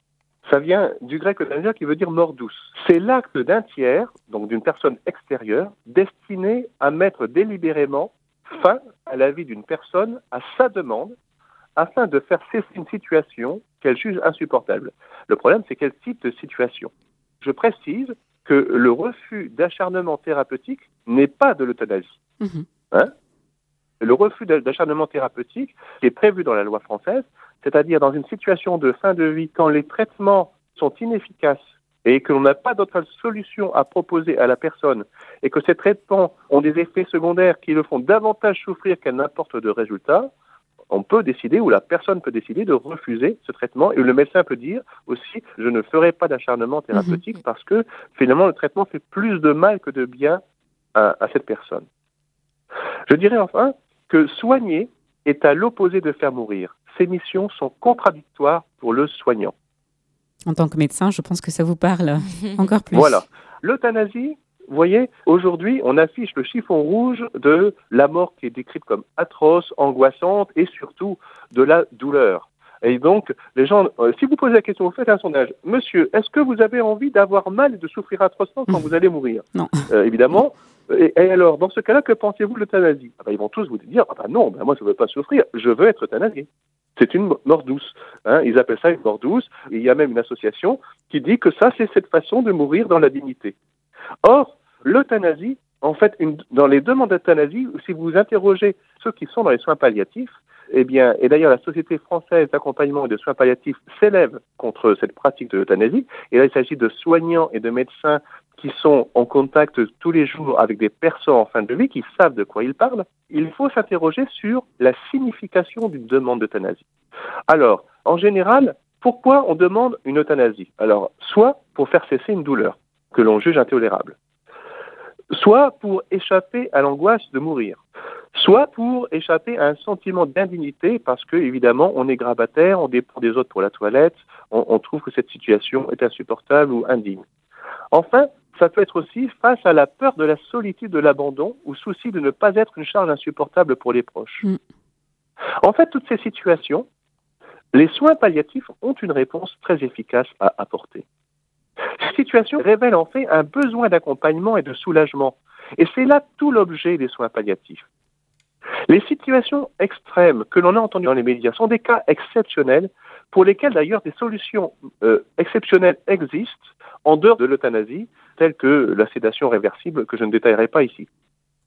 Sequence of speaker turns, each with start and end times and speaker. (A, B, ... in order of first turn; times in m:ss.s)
0:00.4-0:11.1 A
0:11.8-0:22.2 A
0:22.4-0:22.6 B
0:24.0-0:40.3 A
0:40.9-0:50.4 A
0:50.9-0:51.8 A
0:53.1-0:59.5 A
1:00.5-1:03.1 B
1:02.9-1:33.5 A
1:19.5-1:19.8 B
1:34.2-1:56.8 A
1:57.5-2:04.2 A
2:05.3-2:07.8 A
2:08.3-2:17.2 A
2:17.9-2:24.4 A
2:25.6-2:26.8 A
2:27.7-2:31.0 A
2:32.0-2:37.8 A
2:38.9-2:51.1 A